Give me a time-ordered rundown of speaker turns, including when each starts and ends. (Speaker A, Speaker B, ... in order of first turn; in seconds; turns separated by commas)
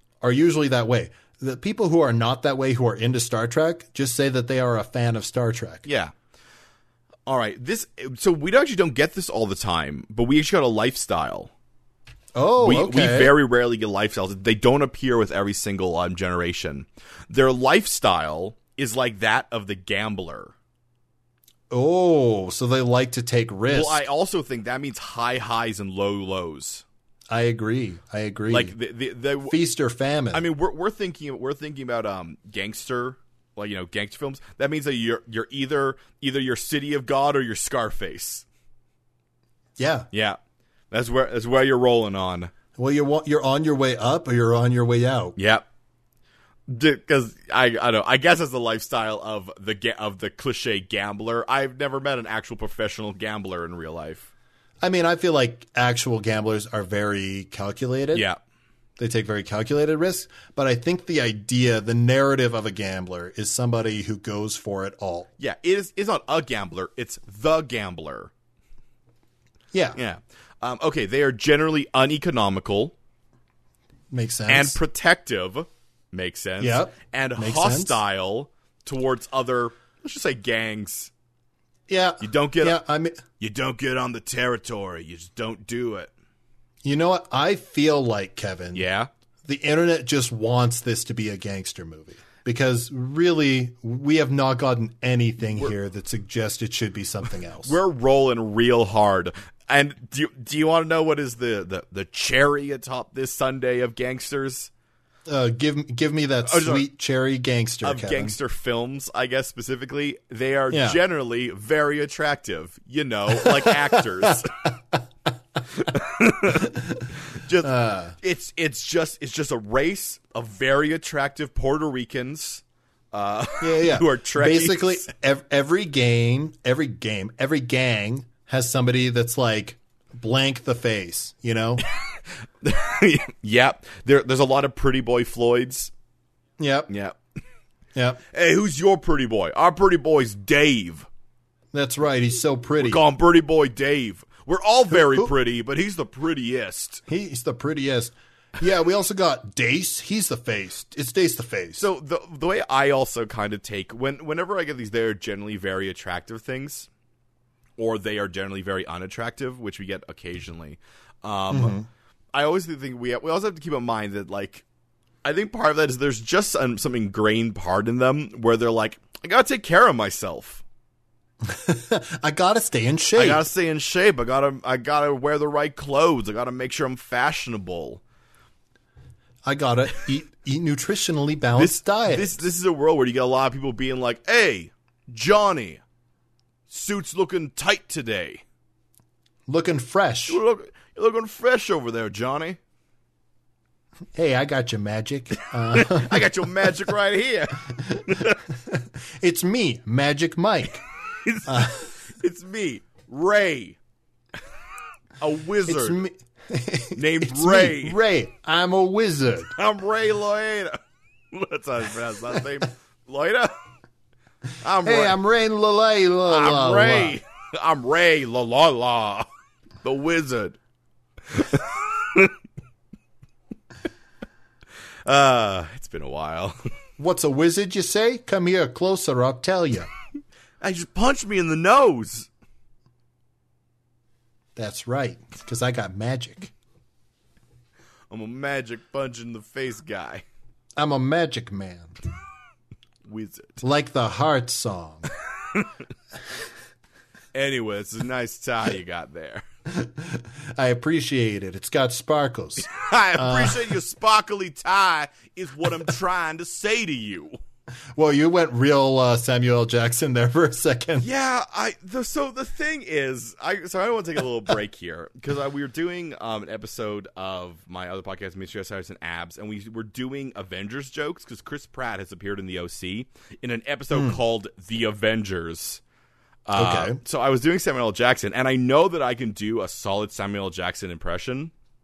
Speaker A: 0.2-5.8, Speaker B: 5.8-6.1, Speaker B: 7.3-11.5, Speaker A: 12.3-13.3, Speaker B: 12.6-20.5, Speaker A: 21.7-24.0, Speaker B: 23.7-26.8, Speaker A: 27.3-28.7, Speaker B: 28.5-29.5, Speaker A: 29.5-30.4, Speaker B: 30.3-38.4, Speaker A: 39.8-40.1, Speaker B: 40.1-40.4, Speaker B: 40.9-42.5, Speaker A: 42.8-45.4, Speaker B: 45.4-45.6, Speaker B: 46.7-54.3, Speaker A: 54.8-58.2, Speaker B: 58.1-58.4, Speaker A: 59.0-65.3, Speaker B: 65.4-68.3, Speaker A: 69.7-70.0, Speaker B: 70.0-72.9, Speaker A: 74.1-74.8, Speaker B: 74.5-81.1, Speaker A: 76.6-78.0, Speaker A: 81.9-83.2, Speaker B: 82.2-82.8, Speaker B: 83.4-86.1, Speaker A: 86.8-88.8, Speaker B: 88.7-89.1, Speaker A: 89.4-97.8, Speaker B: 97.6-104.7, Speaker A: 105.3-108.3, Speaker B: 106.4-106.8, Speaker B: 107.8-114.5, Speaker A: 110.7-111.0, Speaker A: 113.4-115.0, Speaker B: 115.7-116.7, Speaker A: 116.5-117.1, Speaker B: 117.3-125.1, Speaker A: 117.6-118.1, Speaker A: 123.6-131.8, Speaker B: 132.6-135.9, Speaker A: 136.6-136.9, Speaker B: 136.9-137.2, Speaker A: 137.9-138.2, Speaker B: 138.3-141.1, Speaker A: 141.7-143.0, Speaker B: 142.8-147.0, Speaker A: 147.1-151.8, Speaker B: 151.8-156.9, Speaker B: 157.8-161.8, Speaker A: 161.5-161.8, Speaker B: 162.3-164.6, Speaker B: 165.2-170.6, Speaker A: 171.4-173.4, Speaker B: 173.2-178.0, Speaker A: 179.4-182.4, Speaker B: 181.6-185.8, Speaker B: 186.7-188.4, Speaker A: 189.5-190.4, Speaker B: 190.3-192.6, Speaker A: 194.1-196.3, Speaker B: 195.7-198.4, Speaker A: 197.7-200.8, Speaker B: 201.2-203.8, Speaker A: 201.4-201.9, Speaker B: 205.2-206.0, Speaker A: 205.7-209.5, Speaker B: 206.9-208.0, Speaker B: 209.6-210.8, Speaker B: 211.3-213.5, Speaker B: 214.6-215.2, Speaker A: 214.8-217.2, Speaker B: 216.3-219.3, Speaker B: 219.8-220.6, Speaker B: 221.3-222.3, Speaker B: 225.1-226.6, Speaker A: 227.0-229.9, Speaker B: 230.6-232.3, Speaker A: 234.6-236.5, Speaker B: 238.1-240.2, Speaker A: 240.8-241.9, Speaker B: 243.1-243.6, Speaker A: 243.6-245.1, Speaker B: 247.3-249.4, Speaker A: 249.7-253.8, Speaker B: 252.6-257.4, Speaker A: 257.9-261.1, Speaker B: 261.0-275.8, Speaker A: 273.9-274.2, Speaker B: 276.5-281.5, Speaker A: 276.6-277.0